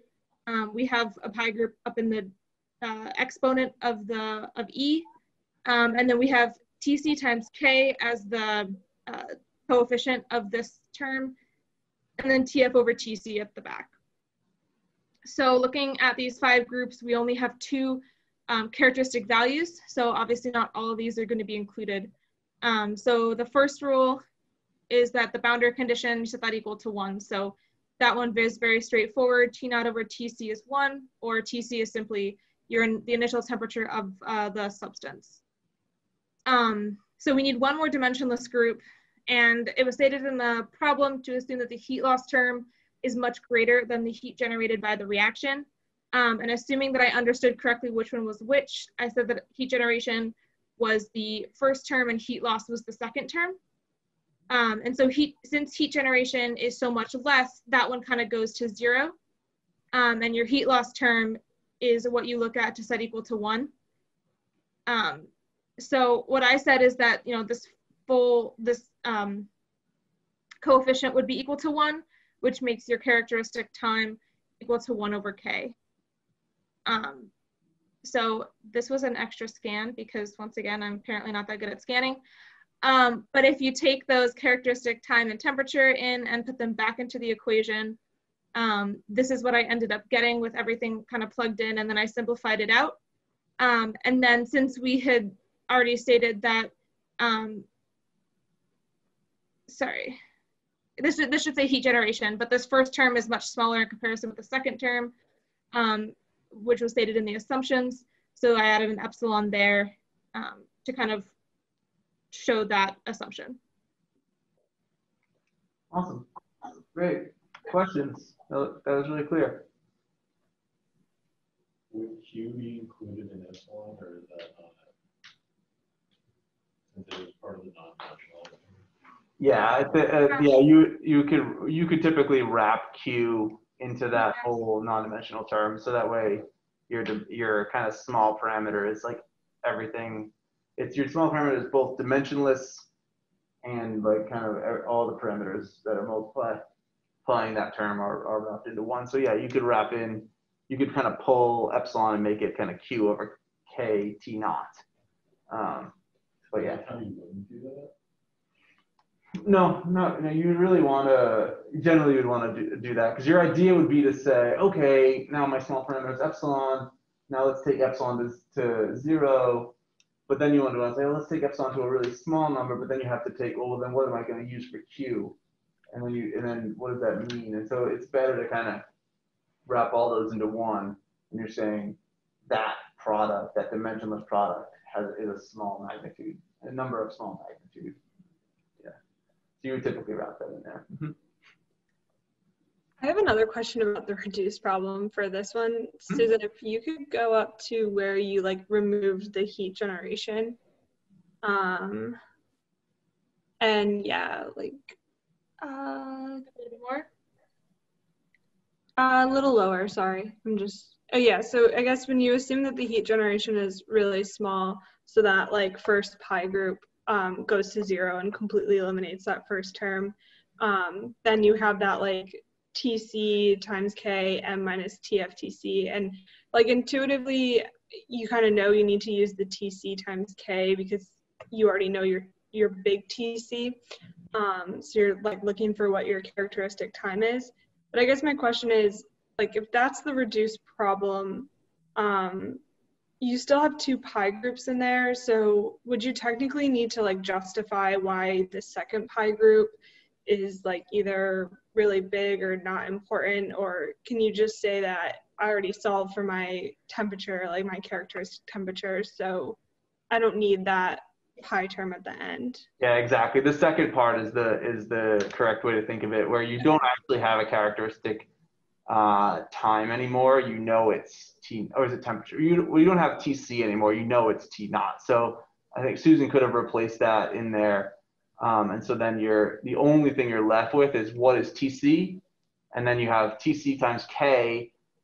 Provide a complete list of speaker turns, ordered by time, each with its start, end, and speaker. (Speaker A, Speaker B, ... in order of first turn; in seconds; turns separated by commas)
Speaker A: 0.5-5.0, Speaker A: 5.6-11.3, Speaker A: 12.2-13.9, Speaker A: 15.2-24.2, Speaker A: 24.9-35.4, Speaker A: 36.5-53.6, Speaker A: 54.5-59.1, Speaker A: 59.9-63.7, Speaker A: 64.9-69.5, Speaker A: 70.6-75.7, Speaker A: 76.8-77.3, Speaker A: 78.0-82.2, Speaker A: 82.8-88.0, Speaker A: 88.5-93.0, Speaker A: 93.6-97.7, Speaker A: 99.7-100.2, Speaker A: 101.0-105.1, Speaker A: 105.7-111.3, Speaker A: 112.3-113.6, Speaker B: 115.9-119.7, Speaker C: 121.9-124.8, Speaker C: 126.9-128.8, Speaker B: 129.4-142.9, Speaker A: 134.2-134.4, Speaker B: 143.6-146.6, Speaker B: 147.2-154.8, Speaker B: 155.5-155.9, Speaker C: 156.5-157.9, Speaker B: 156.5-156.8, Speaker B: 159.4-169.7, Speaker B: 170.3-175.3, Speaker B: 175.9-178.8, Speaker B: 179.7-182.0, Speaker B: 182.5-188.0, Speaker B: 189.6-191.1, Speaker D: 193.0-200.6, Speaker D: 201.4-202.2, Speaker D: 203.6-204.9, Speaker D: 205.6-206.4, Speaker A: 206.5-207.1, Speaker D: 209.0-233.8, Speaker D: 234.3-242.6, Speaker D: 243.2-249.7, Speaker D: 250.2-259.6, Speaker D: 260.1-262.6, Speaker B: 262.8-268.3, Speaker B: 268.9-282.2, Speaker B: 282.7-284.7